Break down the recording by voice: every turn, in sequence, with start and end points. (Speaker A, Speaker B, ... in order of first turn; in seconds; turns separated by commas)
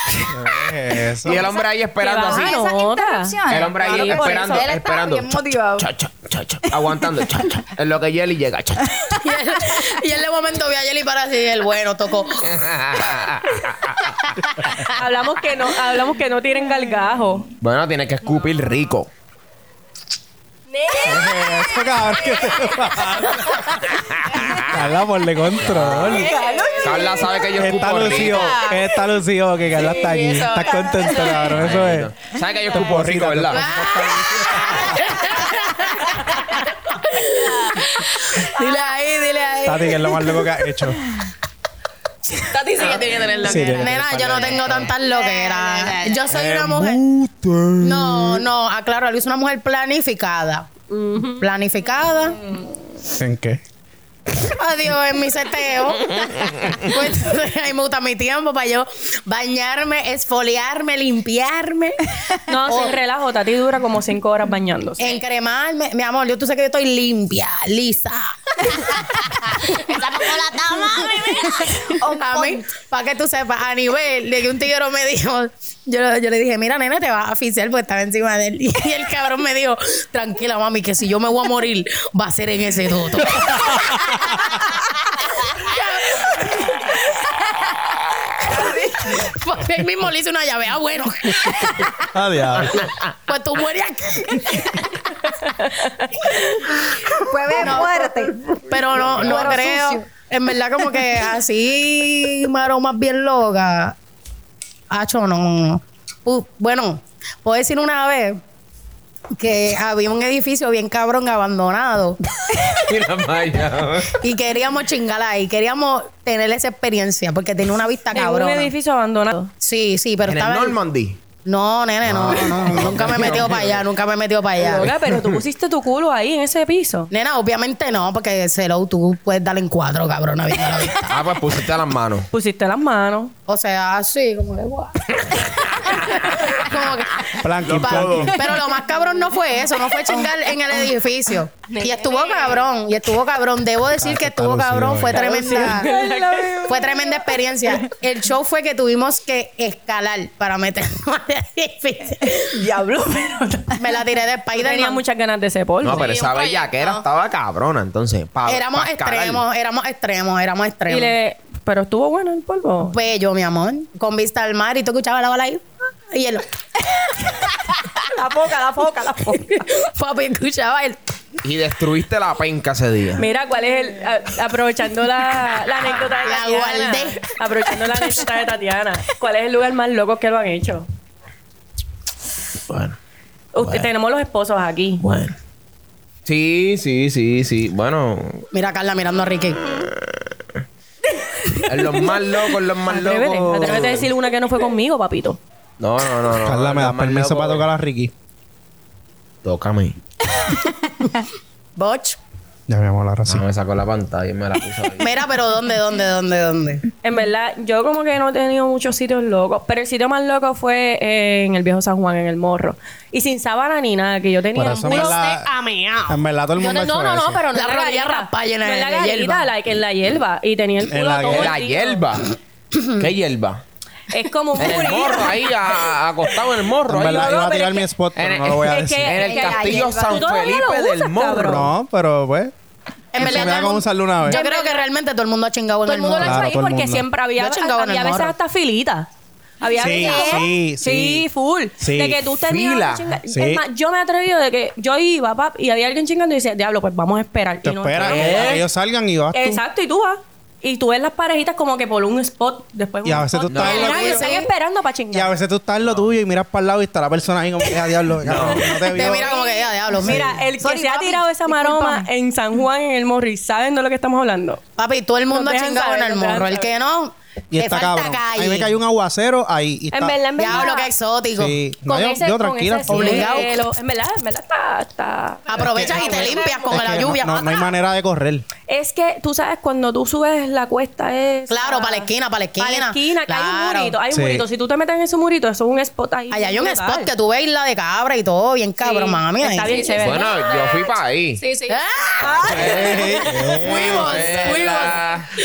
Speaker A: 0.3-1.5, Speaker B: 1.2-2.6, Speaker C: 2.0-4.7, Speaker D: 2.2-5.9, Speaker B: 3.5-9.1, Speaker E: 9.2-12.5, Speaker B: 12.4-14.1, Speaker C: 14.8-17.5, Speaker B: 17.6-19.1, Speaker F: 20.7-23.7, Speaker A: 21.0-23.8, Speaker B: 23.9-24.9, Speaker A: 24.6-26.3, Speaker B: 25.6-28.6, Speaker F: 26.0-28.9, Speaker D: 26.3-27.1, Speaker A: 27.5-32.1, Speaker F: 29.7-31.6, Speaker B: 31.4-33.7, Speaker A: 32.7-35.2, Speaker E: 33.5-37.6, Speaker F: 34.5-40.5, Speaker E: 38.4-39.8, Speaker A: 39.6-41.0, Speaker F: 42.4-46.2, Speaker A: 43.4-44.6, Speaker E: 43.5-47.0, Speaker B: 44.1-44.9, Speaker B: 46.3-48.4, Speaker E: 47.8-50.7, Speaker F: 50.9-51.4, Speaker E: 51.4-52.4, Speaker A: 53.1-53.6, Speaker E: 54.4-63.0, Speaker B: 56.1-56.9, Speaker C: 62.5-65.2, Speaker E: 65.0-84.9, Speaker F: 69.8-71.7, Speaker D: 71.6-72.7, Speaker A: 83.4-84.4, Speaker E: 85.4-86.8, Speaker E: 88.5-91.8, Speaker A: 92.0-92.8, Speaker E: 93.3-95.0, Speaker C: 95.6-96.1, Speaker D: 97.1-98.5, Speaker E: 97.6-104.0, Speaker B: 99.0-99.5, Speaker D: 99.1-100.0, Speaker E: 104.9-108.4, Speaker E: 109.4-112.2, Speaker B: 112.5-114.2, Speaker E: 114.2-118.7, Speaker C: 118.1-119.5, Speaker E: 119.6-120.8, Speaker B: 120.2-121.2, Speaker E: 121.4-124.9, Speaker B: 122.0-123.8, Speaker C: 124.6-127.1, Speaker B: 124.8-125.4, Speaker E: 127.1-131.2, Speaker B: 131.0-132.3, Speaker C: 132.3-133.3, Speaker E: 133.5-145.9, Speaker B: 135.3-136.7, Speaker A: 137.4-138.4, Speaker B: 137.6-138.5, Speaker F: 141.7-142.7, Speaker A: 144.0-145.6, Speaker C: 145.1-147.1, Speaker D: 146.3-146.7, Speaker E: 146.6-152.5, Speaker C: 152.3-154.0, Speaker E: 153.7-155.0, Speaker C: 154.5-156.1, Speaker B: 155.8-159.4, Speaker F: 155.9-157.0, Speaker E: 158.4-161.1, Speaker C: 160.9-163.0, Speaker E: 162.8-166.4, Speaker C: 168.1-169.6, Speaker E: 169.9-171.0, Speaker B: 171.4-173.3, Speaker C: 173.2-180.9, Speaker E: 176.1-177.2, Speaker B: 182.7-183.0, Speaker C: 183.5-185.0, Speaker B: 183.6-183.9, Speaker B: 185.0-185.3, Speaker B: 186.2-188.5, Speaker E: 188.5-189.6, Speaker B: 189.2-190.3, Speaker B: 191.6-194.1, Speaker C: 191.7-195.4, Speaker B: 195.8-197.7, Speaker A: 196.4-198.1, Speaker B: 199.4-200.0, Speaker E: 201.8-202.2, Speaker A: 202.7-203.4, Speaker B: 203.3-205.2, Speaker E: 205.0-206.8, Speaker C: 207.0-215.2, Speaker A: 214.5-215.5, Speaker F: 214.7-216.2, Speaker A: 216.1-217.4, Speaker C: 216.6-222.1, Speaker E: 217.5-219.5, Speaker A: 220.9-221.5, Speaker B: 221.3-222.3, Speaker E: 222.7-223.0, Speaker B: 223.0-223.6, Speaker C: 224.1-225.6, Speaker B: 224.6-227.5, Speaker A: 226.9-229.2, Speaker C: 227.1-227.9, Speaker B: 228.2-231.7, Speaker C: 228.6-231.7, Speaker D: 229.2-230.5, Speaker A: 231.4-232.5, Speaker E: 233.1-236.4, Speaker A: 233.2-234.4, Speaker C: 233.2-233.6, Speaker C: 234.2-234.8, Speaker C: 235.8-239.1, Speaker A: 236.2-237.1, Speaker E: 237.4-238.3, Speaker C: 239.6-248.6, Speaker A: 239.8-241.2, Speaker D: 239.9-240.3, Speaker A: 241.8-242.2, Speaker B: 242.5-243.1, Speaker A: 243.3-243.6, Speaker A: 247.6-249.6, Speaker B: 248.0-248.6, Speaker C: 249.3-255.3, Speaker A: 253.0-254.3, Speaker B: 253.5-254.3, Speaker E: 253.6-254.5, Speaker A: 255.1-259.3, Speaker B: 255.8-256.1, Speaker B: 258.2-258.7, Speaker C: 258.4-264.6, Speaker E: 258.9-260.3, Speaker A: 260.0-260.4, Speaker D: 260.5-262.1, Speaker E: 264.8-268.8, Speaker C: 265.3-266.7, Speaker A: 267.5-270.6, Speaker C: 269.9-270.9, Speaker E: 270.4-271.6, Speaker A: 271.4-273.5, Speaker C: 271.9-276.4, Speaker E: 272.9-273.5, Speaker E: 275.5-277.6, Speaker A: 275.6-278.4, Speaker F: 275.6-277.0, Speaker C: 278.7-287.1, Speaker E: 281.5-283.9, Speaker A: 284.1-284.4, Speaker E: 286.3-289.8, Speaker C: 288.8-290.3, Speaker F: 289.6-295.2, Speaker B: 290.0-291.4, Speaker E: 291.7-292.8, Speaker C: 292.2-292.7, Speaker B: 292.5-295.3, Speaker A: 292.5-294.3, Speaker E: 293.6-294.9